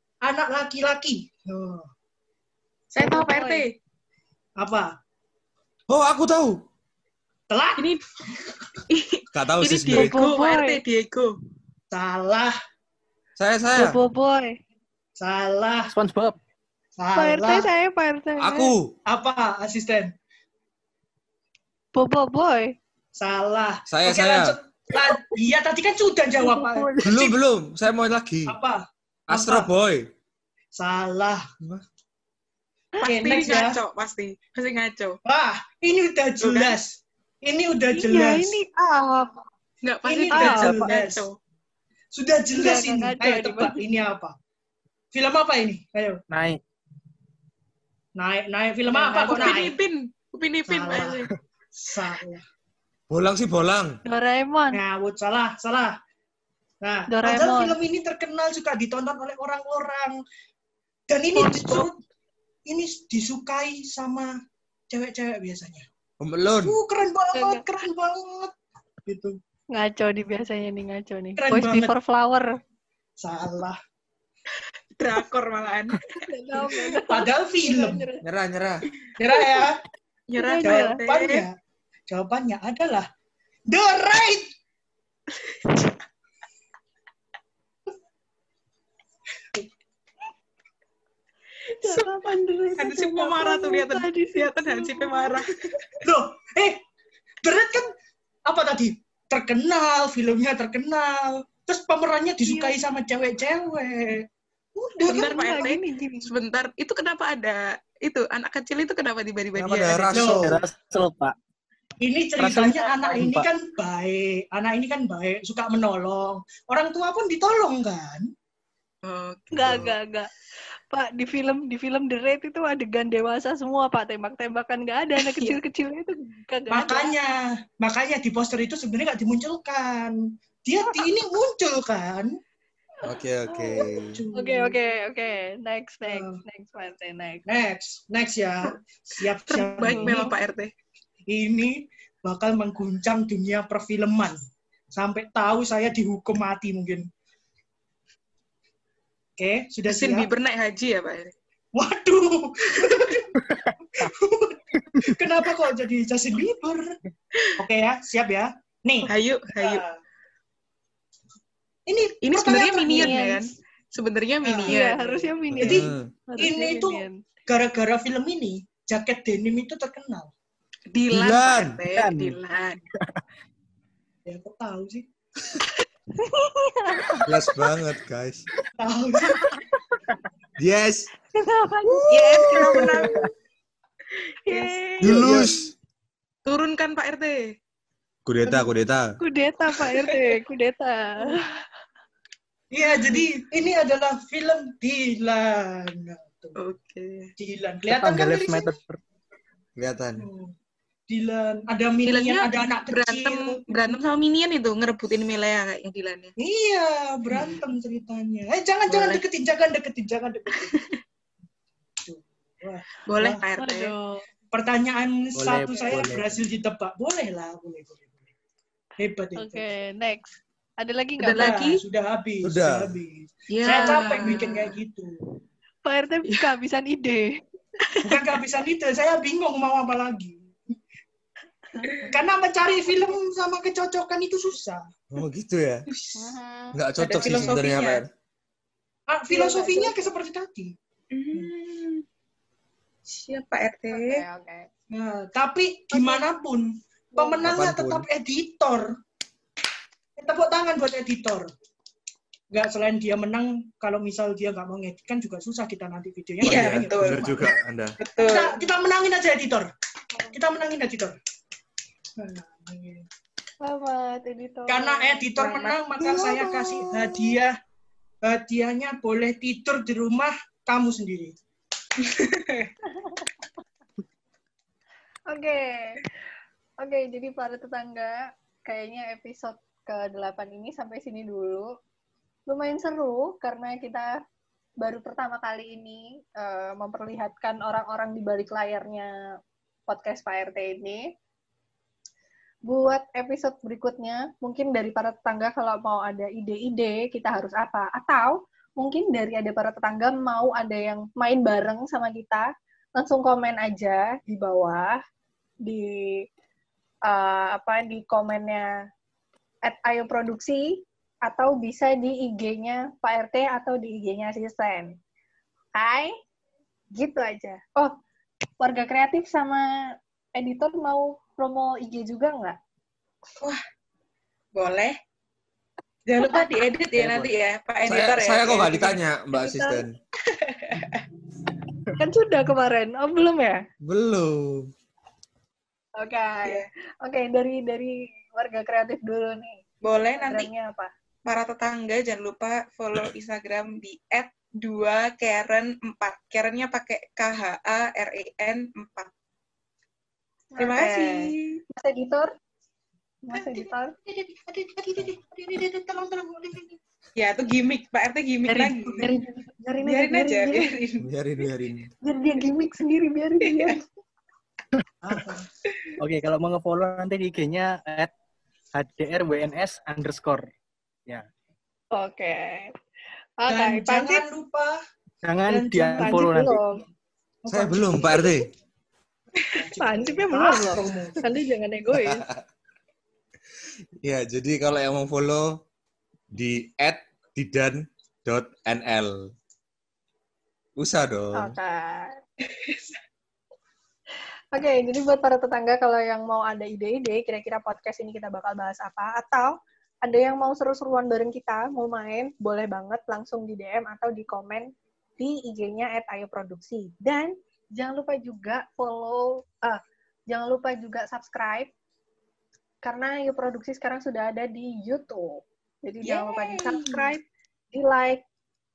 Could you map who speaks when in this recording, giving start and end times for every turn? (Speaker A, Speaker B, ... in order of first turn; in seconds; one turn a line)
Speaker A: 0.2-1.9
Speaker B: 2.9-3.8
Speaker C: 3.0-3.7
Speaker A: 4.6-4.9
Speaker D: 5.9-6.6
Speaker A: 7.5-7.9
Speaker B: 7.8-8.0
Speaker B: 8.9-11.3
Speaker D: 9.3-10.1
Speaker C: 9.9-10.8
Speaker A: 11.9-12.5
Speaker D: 13.4-14.0
Speaker C: 13.8-14.6
Speaker A: 15.2-15.9
Speaker E: 15.9-16.4
Speaker A: 17.0-17.7
Speaker C: 17.1-18.7
Speaker D: 18.4-18.9
Speaker A: 19.1-20.1
Speaker C: 21.9-22.8
Speaker A: 23.2-27.4
Speaker D: 23.9-24.6
Speaker E: 26.4-27.1
Speaker D: 27.0-28.6
Speaker A: 28.5-29.7
Speaker D: 29.3-30.1
Speaker A: 30.8-31.5
Speaker A: 33.0-33.8
Speaker B: 33.0-35.2
Speaker A: 35.2-38.6
Speaker B: 36.4-36.8
Speaker C: 38.0-39.4
Speaker B: 39.8-41.4
Speaker A: 40.0-41.3
Speaker C: 40.3-40.9
Speaker A: 42.1-44.4
Speaker C: 42.5-43.8
Speaker A: 45.1-46.2
Speaker E: 46.3-46.6
Speaker A: 48.2-49.8
Speaker C: 48.9-49.6
Speaker B: 49.2-51.3
Speaker A: 50.7-51.2
Speaker A: 51.8-52.4
Speaker D: 53.1-54.0
Speaker C: 54.1-54.8
Speaker A: 54.7-55.9
Speaker A: 56.8-60.2
Speaker C: 57.1-57.8
Speaker A: 61.1-62.0
Speaker B: 61.4-61.9
Speaker A: 62.7-64.3
Speaker A: 64.9-65.9
Speaker D: 66.2-66.8
Speaker A: 66.6-68.5
Speaker C: 67.3-67.6
Speaker A: 69.1-69.4
Speaker C: 69.7-72.5
Speaker A: 71.4-71.9
Speaker A: 73.2-73.8
Speaker B: 75.0-76.0
Speaker C: 76.2-78.2
Speaker A: 77.0-78.1
Speaker D: 78.2-78.8
Speaker A: 79.2-79.8
Speaker B: 80.3-81.5
Speaker C: 80.4-81.0
Speaker A: 80.6-81.5
Speaker A: 82.1-83.1
Speaker A: 83.7-84.5
Speaker B: 85.4-85.9
Speaker C: 91.8-95.5
Speaker B: 91.8-92.2
Speaker B: 92.8-95.6
Speaker A: 96.0-96.8
Speaker A: 97.4-97.9
Speaker A: 98.5-105.7
Speaker C: 102.4-102.8
Speaker B: 105.0-110.3
Speaker C: 105.2-106.3
Speaker D: 109.6-110.6
Speaker A: 110.1-110.6
Speaker E: 110.3-111.3
Speaker A: 112.0-118.3
Speaker E: 112.4-113.5
Speaker B: 119.0-120.0
Speaker C: 119.5-120.3
Speaker C: 120.9-127.1
Speaker B: 125.2-125.6
Speaker A: 126.7-132.4
Speaker D: 133.0-134.2
Speaker C: 133.5-137.4
Speaker A: 134.0-134.8
Speaker A: 136.0-136.4
Speaker A: 137.5-140.2
Speaker B: 139.5-140.7
Speaker C: 139.8-140.3
Speaker A: 141.3-144.4
Speaker A: 144.9-147.1
Speaker A: 149.4-150.3
Speaker B: 149.9-151.3
Speaker A: 151.7-157.0
Speaker A: 157.6-160.0
Speaker B: 159.1-159.8
Speaker A: 161.9-163.2
Speaker B: 162.2-165.3
Speaker C: 162.9-163.4
Speaker A: 164.4-164.8
Speaker C: 164.7-167.2
Speaker D: 165.5-166.1
Speaker A: 165.5-170.3
Speaker B: 170.9-172.8
Speaker D: 171.1-171.8
Speaker E: 171.9-172.4
Speaker A: 174.3-175.1
Speaker C: 176.2-177.2
Speaker D: 177.2-178.4
Speaker A: 178.8-179.4
Speaker D: 180.6-181.1
Speaker C: 181.3-182.2
Speaker D: 181.8-182.8
Speaker B: 182.1-183.3
Speaker E: 182.6-183.3
Speaker B: 184.2-185.4
Speaker C: 184.5-185.3
Speaker D: 185.0-185.7
Speaker A: 185.1-185.5
Speaker B: 186.5-187.5
Speaker D: 188.3-189.1
Speaker C: 189.2-191.6
Speaker A: 192.7-196.6
Speaker B: 196.6-197.3
Speaker A: 197.4-198.7
Speaker E: 197.9-199.0
Speaker D: 199.8-200.3
Speaker A: 200.2-200.5
Speaker A: 201.1-203.6
Speaker B: 202.1-206.3
Speaker A: 206.4-210.8
Speaker B: 207.3-207.6
Speaker B: 208.9-209.2
Speaker B: 210.6-211.0
Speaker A: 212.0-213.4
Speaker B: 213.1-213.9
Speaker C: 213.6-214.2
Speaker A: 214.5-218.2
Speaker E: 215.3-216.4
Speaker A: 219.0-219.7
Speaker C: 219.4-221.7
Speaker B: 221.2-221.8
Speaker A: 221.4-225.1
Speaker D: 222.4-223.0
Speaker B: 223.5-224.8
Speaker C: 223.7-224.5
Speaker C: 225.8-227.4
Speaker B: 227.9-228.4
Speaker A: 228.0-230.5
Speaker C: 231.7-232.1
Speaker A: 232.1-234.9
Speaker D: 235.1-235.9
Speaker B: 235.9-236.3
Speaker C: 236.2-236.8
Speaker D: 236.7-238.1
Speaker B: 237.0-238.0
Speaker A: 237.2-237.5
Speaker A: 239.1-240.8
Speaker C: 239.3-240.2
Speaker B: 241.1-242.0
Speaker B: 243.1-244.2
Speaker C: 243.9-244.7
Speaker A: 244.9-248.9
Speaker C: 245.9-246.3
Speaker C: 247.2-247.4
Speaker D: 247.4-248.1
Speaker A: 250.2-251.5
Speaker A: 252.5-257.6
Speaker D: 256.4-258.0
Speaker B: 256.4-258.6
Speaker A: 258.2-259.7
Speaker A: 260.3-261.2
Speaker A: 262.2-263.1
Speaker C: 263.6-265.7
Speaker A: 264.7-267.5
Speaker D: 266.0-267.4
Speaker A: 268.2-271.3
Speaker B: 272.0-272.7
Speaker C: 273.0-273.3
Speaker C: 275.3-276.0
Speaker C: 276.8-281.7
Speaker C: 282.5-284.1
Speaker C: 284.8-289.1
Speaker C: 289.9-291.0
Speaker C: 292.7-305.0
Speaker C: 305.6-306.2
Speaker C: 307.1-308.7
Speaker C: 309.7-310.7
Speaker C: 311.2-315.0
Speaker C: 315.8-316.1
Speaker C: 316.9-318.0
Speaker C: 318.6-319.7
Speaker C: 320.4-322.6
Speaker B: 324.6-324.9
Speaker B: 326.1-329.0
Speaker C: 326.2-326.6
Speaker E: 326.9-327.3
Speaker D: 327.9-329.9
Speaker C: 329.3-329.8
Speaker B: 330.3-331.0
Speaker C: 332.0-333.6
Speaker D: 333.8-334.7
Speaker C: 336.0-339.6
Speaker B: 339.8-340.5
Speaker C: 340.2-340.9
Speaker B: 341.2-349.1
Speaker C: 350.5-352.3
Speaker B: 350.6-351.6
Speaker C: 353.2-353.9
Speaker A: 353.3-356.8
Speaker B: 357.2-359.1
Speaker C: 358.5-360.7
Speaker A: 358.9-359.1
Speaker B: 359.8-361.1
Speaker D: 361.0-361.9
Speaker C: 362.0-363.8
Speaker B: 363.4-363.7
Speaker A: 365.0-365.5
Speaker E: 366.0-368.1
Speaker E: 368.7-370.5
Speaker C: 371.9-372.7
Speaker C: 373.4-374.3
Speaker A: 373.5-374.8
Speaker E: 375.2-376.6
Speaker A: 375.5-376.5
Speaker C: 376.0-376.8
Speaker A: 377.4-378.5
Speaker D: 377.5-378.5
Speaker A: 379.5-381.3
Speaker C: 379.8-382.2
Speaker D: 381.9-382.4
Speaker D: 384.0-385.5
Speaker D: 386.3-389.3
Speaker D: 390.8-391.6
Speaker C: 391.4-392.1
Speaker B: 392.4-392.9
Speaker C: 394.5-411.7
Speaker C: 412.8-418.2
Speaker B: 416.0-417.1